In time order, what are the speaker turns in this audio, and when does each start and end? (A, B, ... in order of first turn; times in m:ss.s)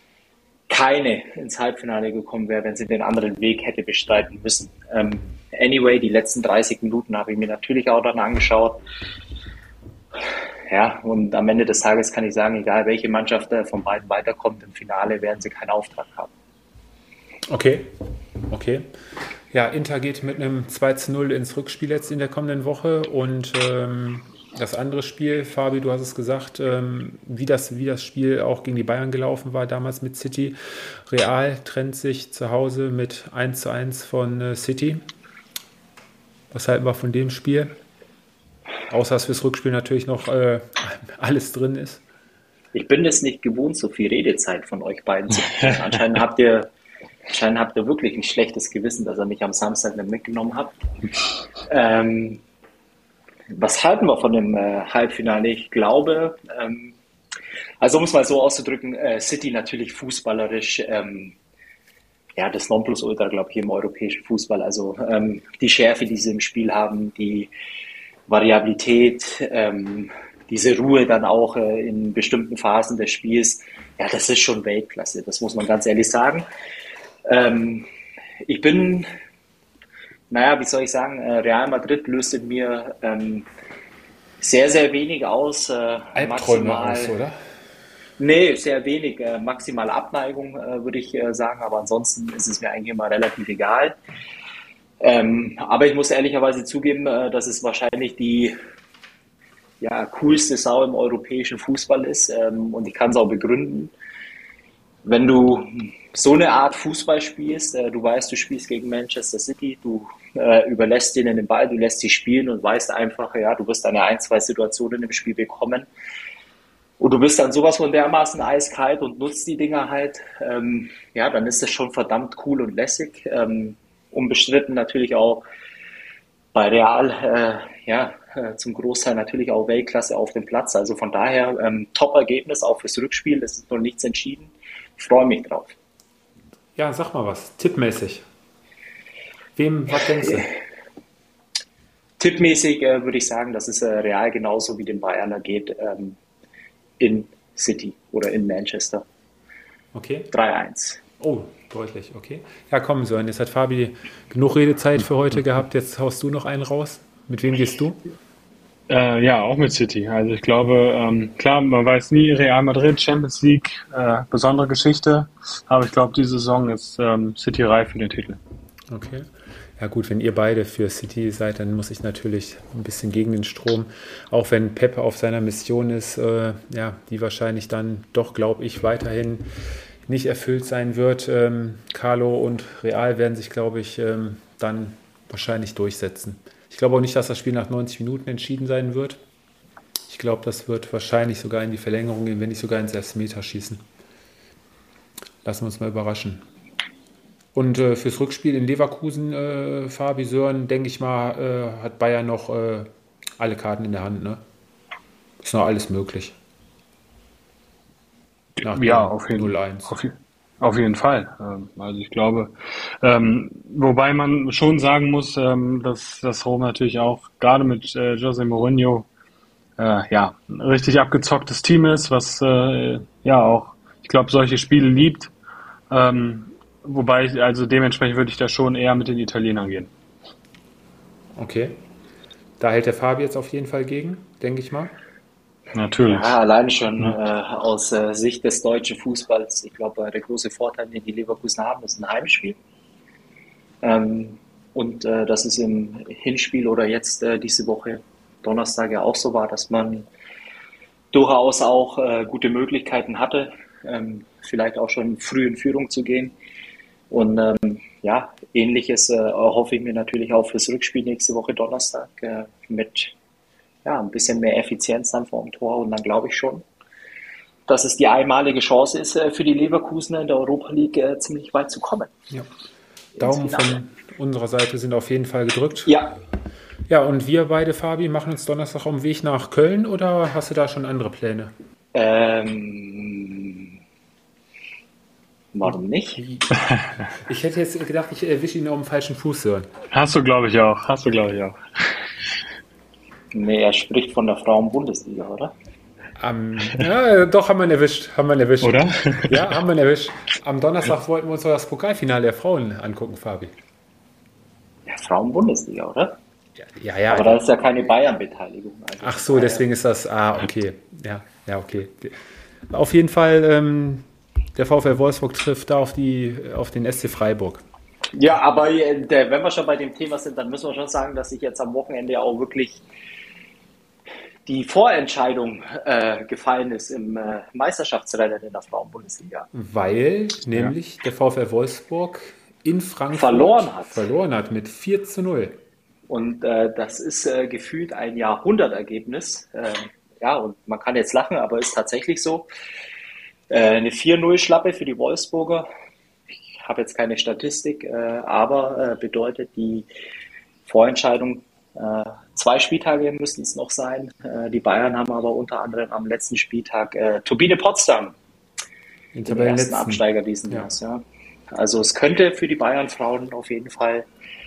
0:00.7-0:08.8 A
0:10.7-0:16.3 A
0:17.5-0:18.9 B
0:19.5-0:35.0 B
0:36.5-0:37.7 B
0:38.9-0:42.0 B
0:42.7-0:46.7 A
0:47.3-0:50.7 A
0:51.7-0:52.4 A
0:53.5-0:57.0 A
0:57.8-1:01.4 A
1:02.4-1:07.5 A
1:08.3-1:16.4 A
1:17.2-1:17.9 A
1:18.4-1:19.1 A
1:20.3-1:23.5 A
1:24.4-1:27.1 A
1:26.1-1:27.4 B
1:28.2-1:34.0 A
1:35.0-1:38.6 A
1:39.8-1:43.9 A
1:45.0-1:55.9 A
1:57.0-2:05.4 A
2:06.5-2:15.7 A
2:16.8-2:18.2 B
2:19.6-2:20.5 B
2:22.2-2:26.2 A
2:27.0-2:29.0 A
2:29.9-2:30.3 B
2:30.3-2:31.0 A
2:31.2-2:38.0 B
2:38.9-2:48.4 C
2:48.9-2:59.5 B
3:00.0-3:09.2 B
3:10.1-3:13.8 B
3:15.4-3:16.4 B
3:17.5-3:24.4 B
3:25.4-3:26.4 B
3:28.6-3:39.1 C
3:28.6-3:29.9 B
3:39.8-3:45.3 C
3:45.9-3:49.9 C
3:51.4-3:51.8 B
3:52.6-3:54.9 B
3:55.7-3:56.4 C
3:56.0-4:02.6 A
4:03.8-4:10.1 A
4:11.1-4:16.3 A
4:17.1-4:23.1 A
4:23.8-4:26.6 A
4:27.7-4:32.1 A
4:33.2-4:33.8 A
4:33.2-4:36.0 B
4:35.8-4:36.1 A
4:36.9-4:41.5 B
4:41.9-4:43.8 A
4:45.5-4:46.2 A
4:45.6-4:46.5 B
4:47.1-4:49.7 B
4:49.9-4:52.0 C
4:53.3-4:55.5 A
4:56.2-5:03.5 B
4:58.6-4:59.5 C
5:04.9-5:06.2 A
5:06.6-5:07.4 B
5:07.1-5:09.6 A
5:09.0-5:17.6 B
5:18.1-5:22.8 A
5:24.4-5:29.5 A
5:29.5-5:35.6 B
5:33.1-5:34.0 A
5:36.1-5:42.5 A
5:43.5-5:45.7 A
5:46.6-5:49.8 A
5:50.6-5:58.1 A
5:59.1-6:00.7 B
5:59.3-6:04.0 A